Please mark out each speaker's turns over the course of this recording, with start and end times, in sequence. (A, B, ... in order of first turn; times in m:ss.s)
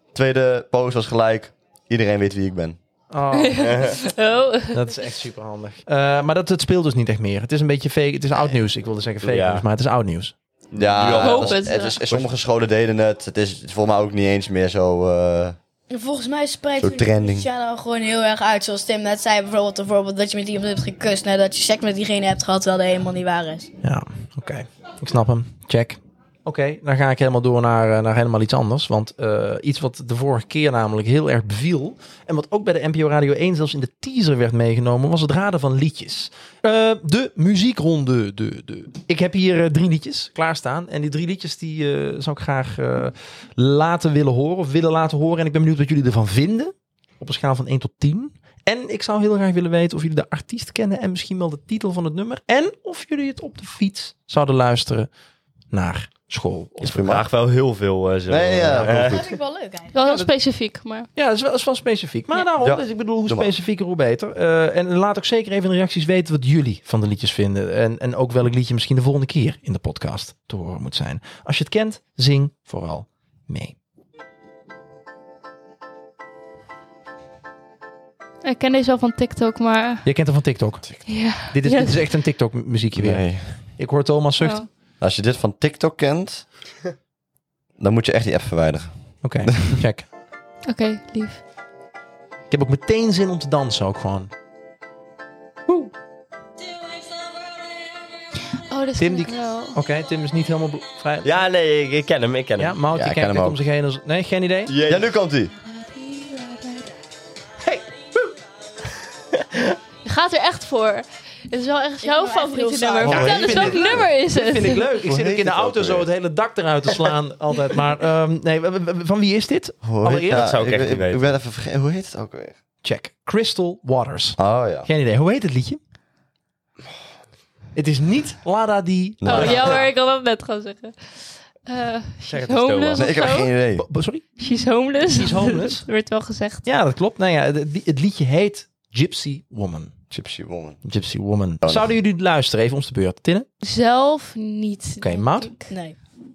0:00.1-0:02.8 A
0:03.1-0:03.9 B
0:03.3-0:04.9 C
0:03.6-0:04.0 D
0:04.7-0:10.3 B
0:09.2-0:09.6 D
0:10.7-0:11.6 D
0:10.7-0:15.6 A
0:11.2-0:12.0 C
0:15.9-0:23.7 E
0:16.8-0:17.5 A
0:23.8-0:55.1 B
0:55.7-0:57.1 B
0:56.8-0:57.2 A
0:57.0-0:59.3 D
0:58.3-0:59.2 A
0:58.8-0:59.0 B
0:59.0-1:00.0 E
0:59.9-1:01.1 C
1:01.2-1:13.8 B
1:02.6-1:03.5 A
1:18.4-1:20.0 C
1:20.0-1:24.6 B
1:21.0-1:22.1 C
1:23.0-1:23.6 A
1:24.4-1:24.7 C
1:25.0-1:26.4 A
1:27.8-1:29.8 A
1:29.2-1:30.1 B
1:30.6-1:31.4 C
1:32.5-1:34.3 B
1:38.7-1:39.8 C
1:39.0-1:41.3 B
1:41.2-1:42.8 D
1:42.6-1:44.7 B
1:42.9-1:43.6 A
1:44.7-1:45.1 D
1:44.8-1:45.5 A
1:45.6-1:46.9 C
1:47.6-1:48.3 B
1:50.0-1:54.9 C
1:52.0-1:53.7 E
1:53.0-1:54.1 A
1:53.1-2:00.5 B
1:55.0-1:56.1 A
1:59.8-2:02.6 A
2:00.3-2:01.2 D
2:02.8-2:05.8 B
2:04.4-2:04.9 A
2:07.7-2:09.8 B
2:09.2-2:09.7 A
2:09.2-2:11.0 C
2:11.6-2:13.5 C
2:12.3-2:13.2 D
2:12.9-2:13.8 A
2:13.8-2:14.2 B
2:14.4-2:16.6 C
2:15.1-2:15.8 B
2:16.6-2:19.9 B
2:20.1-2:20.8 A
2:20.8-2:23.5 B
2:21.6-2:21.9 A
2:23.6-2:25.7 C
2:25.0-2:25.5 B
2:25.7-2:26.0 E